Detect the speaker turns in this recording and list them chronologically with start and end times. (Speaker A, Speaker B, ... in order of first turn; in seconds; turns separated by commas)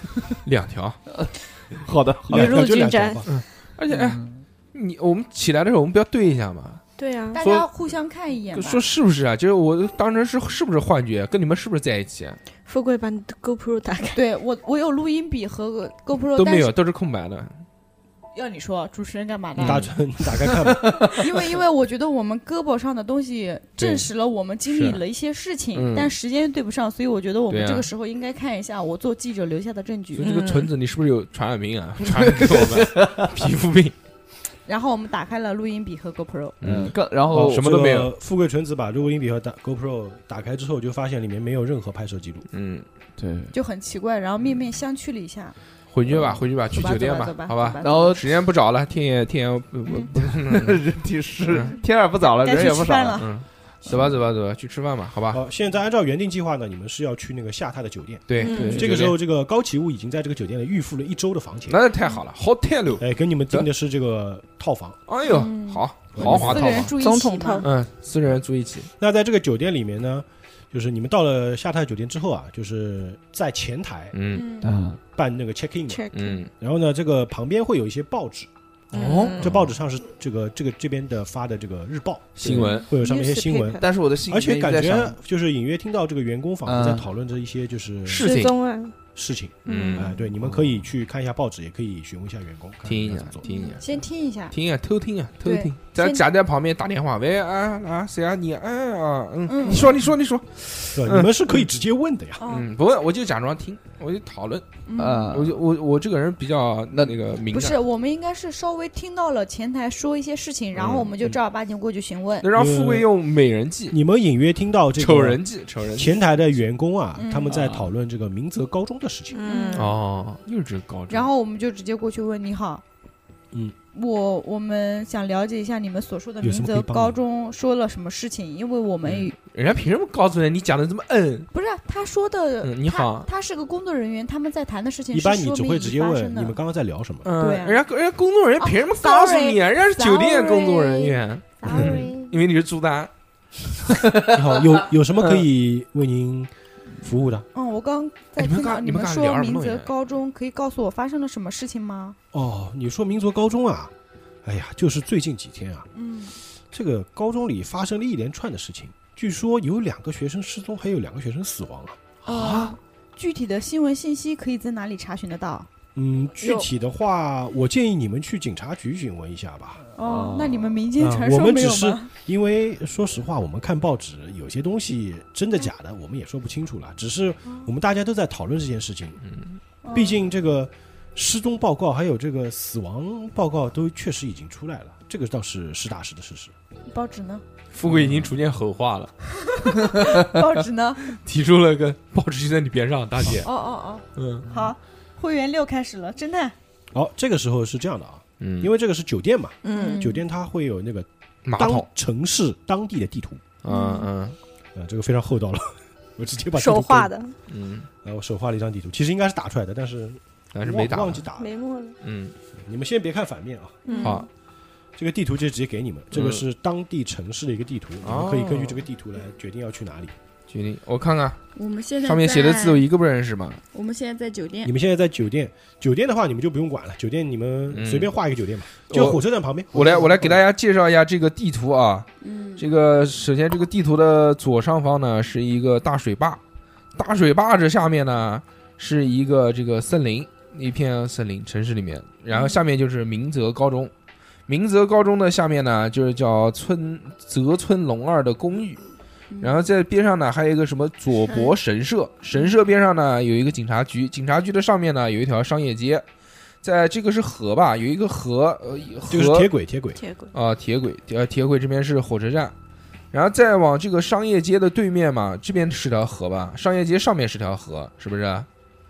Speaker A: 0.4-1.0, Speaker B: 1.1-2.7, Speaker C: 2.3-3.2, Speaker D: 2.3-3.3, Speaker A: 3.3-6.8, Speaker B: 3.9-4.4, Speaker C: 7.0-7.4, Speaker E: 7.3-8.8, Speaker A: 7.4-7.7, Speaker A: 8.5-12.4, Speaker C: 12.7-14.2, Speaker E: 14.1-16.7, Speaker A: 16.3-17.6, Speaker E: 18.3-19.9, Speaker D: 19.6-21.1, Speaker A: 19.6-19.9, Speaker B: 20.6-21.2, Speaker E: 21.2-30.3, Speaker A: 23.8-24.1, Speaker A: 24.7-25.0, Speaker A: 25.7-26.1, Speaker A: 27.5-27.9, Speaker A: 30.1-33.9, Speaker C: 30.2-30.7, Speaker B: 32.2-33.3, Speaker E: 34.6-36.6, Speaker A: 36.6-38.1, Speaker B: 36.6-37.6, Speaker D: 37.3-42.5, Speaker A: 42.5-42.8, Speaker B: 43.2-43.5, Speaker E: 43.5-45.5, Speaker A: 45.9-50.8, Speaker B: 46.1-46.4, Speaker E: 46.7-48.2, Speaker B: 47.8-48.2, Speaker B: 50.0-53.3, Speaker A: 51.5-51.7, Speaker E: 52.4-53.3, Speaker A: 53.2-55.4, Speaker B: 53.9-54.1, Speaker D: 55.3-61.8, Speaker A: 58.3-59.2, Speaker C: 58.4-58.8, Speaker B: 58.4-59.0, Speaker A: 61.7-63.7, Speaker D: 63.0-65.0, Speaker A: 65.1-66.9, Speaker E: 65.2-67.7, Speaker D: 66.1-66.9, Speaker C: 67.0-67.7, Speaker A: 67.6-68.9, Speaker D: 69.0-74.1, Speaker A: 74.1-74.5, Speaker E: 74.3-74.7, Speaker B: 74.6-75.0, Speaker D: 75.1-76.0, Speaker C: 75.9-76.4, Speaker A: 76.1-76.5, Speaker D: 76.6-78.5, Speaker C: 78.9-79.5, Speaker B: 78.9-79.4, Speaker A: 79.0-79.6, Speaker D: 79.4-88.3, Speaker A: 82.4-82.9, Speaker C: 82.6-83.8, Speaker B: 83.8-85.2, Speaker B: 86.7-87.1, Speaker A: 88.0-88.5, Speaker C: 88.2-88.9, Speaker D: 89.1-93.4, Speaker A: 89.7-90.1, Speaker C: 89.7-90.2, Speaker A: 92.8-93.8, Speaker C: 93.4-93.8, Speaker E: 93.5-94.5, Speaker A: 94.5-101.5, Speaker E: 95.4-96.2, Speaker E: 99.5-99.9, Speaker B: 99.7-100.0, Speaker D: 101.0-102.4, Speaker E: 102.4-102.7, Speaker A: 102.5-104.6, Speaker E: 104.9-105.5, Speaker B: 105.0-105.6, Speaker A: 105.3-107.8, Speaker B: 106.9-107.2, Speaker E: 107.5-112.5, Speaker A: 110.7-111.3, Speaker A: 112.4-114.0, Speaker D: 112.5-113.1, Speaker D: 113.9-115.4, Speaker A: 115.0-116.4, Speaker D: 116.0-119.5, Speaker E: 117.2-117.5, Speaker B: 117.5-117.9, Speaker C: 119.3-119.9, Speaker E: 119.4-119.9, Speaker A: 119.7-121.3, Speaker E: 121.1-122.8, Speaker E: 123.9-129.3, Speaker D: 126.4-127.2, Speaker A: 129.0-131.5, Speaker E: 131.5-136.6, Speaker A: 132.6-133.3, Speaker D: 135.1-137.3, Speaker A: 137.2-143.1, Speaker E: 137.4-137.8, Speaker E: 138.6-141.1, Speaker C: 140.5-142.1, Speaker E: 141.6-142.3, Speaker D: 144.3-147.5, Speaker A: 145.2-145.4, Speaker E: 147.5-152.2, Speaker A: 148.3-149.9, Speaker D: 152.3-153.9, Speaker D: 154.4-155.9, Speaker E: 155.9-156.3, Speaker D: 156.7-162.1, Speaker E: 162.2-165.7, Speaker B: 162.3-162.8, Speaker D: 165.9-169.8, Speaker C: 166.4-166.7, Speaker E: 169.9-172.1, Speaker B: 169.9-170.8, Speaker D: 171.0-179.2, Speaker A: 179.2-179.6, Speaker E: 179.8-180.2, Speaker D: 179.9-186.5, Speaker E: 186.9-187.4, Speaker A: 187.7-189.1, Speaker B: 187.9-188.2, Speaker E: 189.3-191.0, Speaker A: 191.1-193.5, Speaker E: 193.4-196.5, Speaker A: 194.2-194.4, Speaker D: 196.9-203.4, Speaker A: 198.4-198.7, Speaker C: 199.6-200.0, Speaker E: 199.7-200.2, Speaker A: 201.4-201.8, Speaker A: 203.6-204.3, Speaker E: 203.7-204.1, Speaker C: 203.7-204.1, Speaker D: 204.7-207.1, Speaker C: 206.6-207.3, Speaker A: 207.5-207.9, Speaker D: 208.0-211.5, Speaker A: 210.5-211.2, Speaker C: 211.4-211.9, Speaker A: 212.0-212.3, Speaker D: 212.6-213.8, Speaker E: 213.8-214.2, Speaker C: 213.9-214.3, Speaker A: 214.0-214.3, Speaker D: 215.0-220.1, Speaker A: 216.1-216.4, Speaker A: 218.0-218.8, Speaker A: 220.5-221.4, Speaker E: 221.5-222.8, Speaker A: 222.0-223.6, Speaker E: 223.7-224.7, Speaker D: 224.6-230.3, Speaker A: 227.7-228.1, Speaker A: 228.9-229.2, Speaker A: 229.7-236.4, Speaker E: 232.2-232.6, Speaker A: 236.9-243.9, Speaker E: 242.3-242.6, Speaker A: 244.5-248.8, Speaker E: 249.3-249.6, Speaker A: 249.4-256.0, Speaker A: 256.6-259.5, Speaker D: 259.1-260.0, Speaker C: 260.0-260.3, Speaker A: 260.3-262.5, Speaker A: 263.1-268.5